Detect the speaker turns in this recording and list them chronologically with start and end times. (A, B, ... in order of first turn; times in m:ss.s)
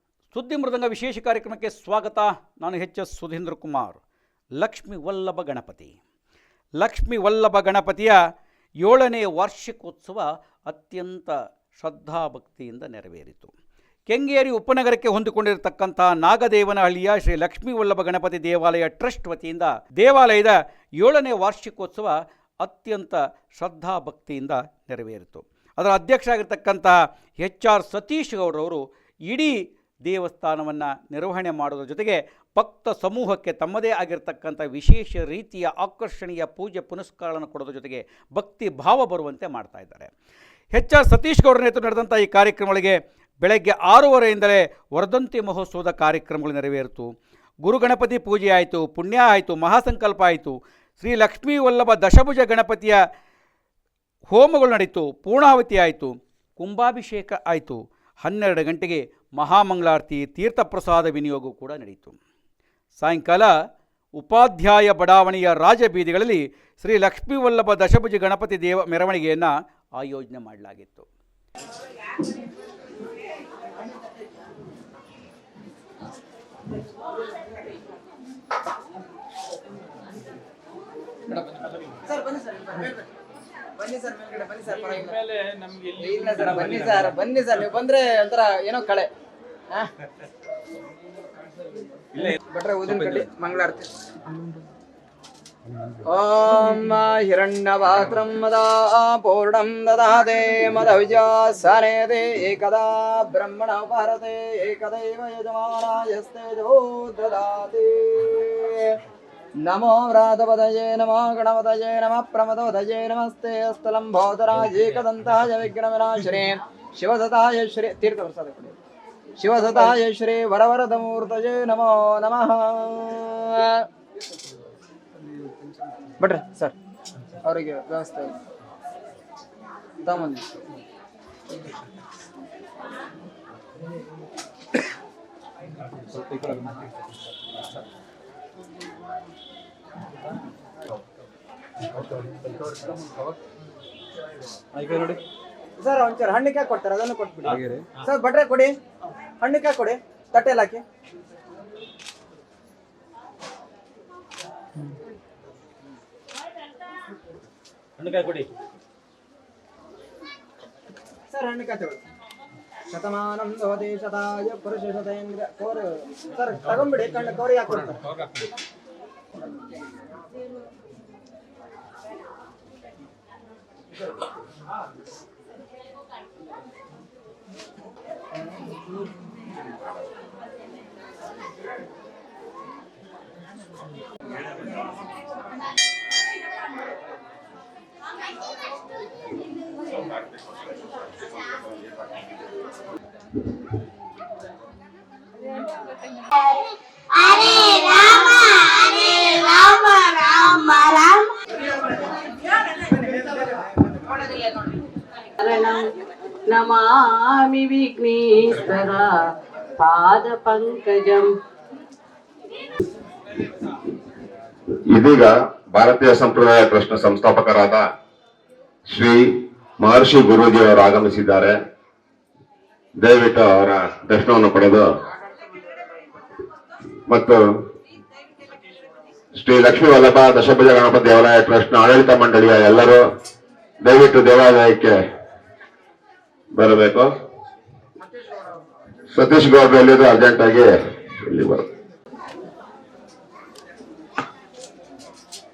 0:00.3-0:04.0 A
0:04.6-0:06.0 A
0:06.8-0:08.2 A
0:08.8-0:13.5 A
0:14.1-0:40.1 A
0:40.7-0:47.1 A
0:47.6-0:53.0 A
0:54.3-1:02.2 A
1:03.0-1:03.5 A
1:04.2-1:11.1 A
1:22.0-1:23.1 B
1:23.8-1:25.2 B
1:24.9-1:27.1 C
1:26.0-1:29.1 B
1:32.3-1:33.9 B
1:36.0-1:49.0 B
1:49.6-1:58.8 B
1:59.4-2:03.9 B
2:06.2-2:06.7 B
2:07.4-2:08.3 B
2:10.0-2:10.5 B
2:16.0-2:16.8 C
2:22.2-2:22.9 C
2:24.7-2:25.2 C
2:25.8-2:28.7 B
2:27.5-2:28.0 C
2:29.4-2:30.8 B
2:38.0-2:38.5 C
2:41.3-2:42.0 B
2:42.9-2:48.0 B
3:16.3-3:21.3 D
3:24.2-3:24.6 D
3:25.4-3:25.9 D
3:26.5-3:29.2 D
3:29.8-3:31.3 D
3:34.9-3:37.8 E
3:38.9-3:41.6 E
3:43.0-3:44.9 E
3:47.1-3:47.4 E
3:49.4-3:53.0 E
3:53.8-3:55.0 E
3:56.5-3:57.1 E
3:59.1-4:01.7 E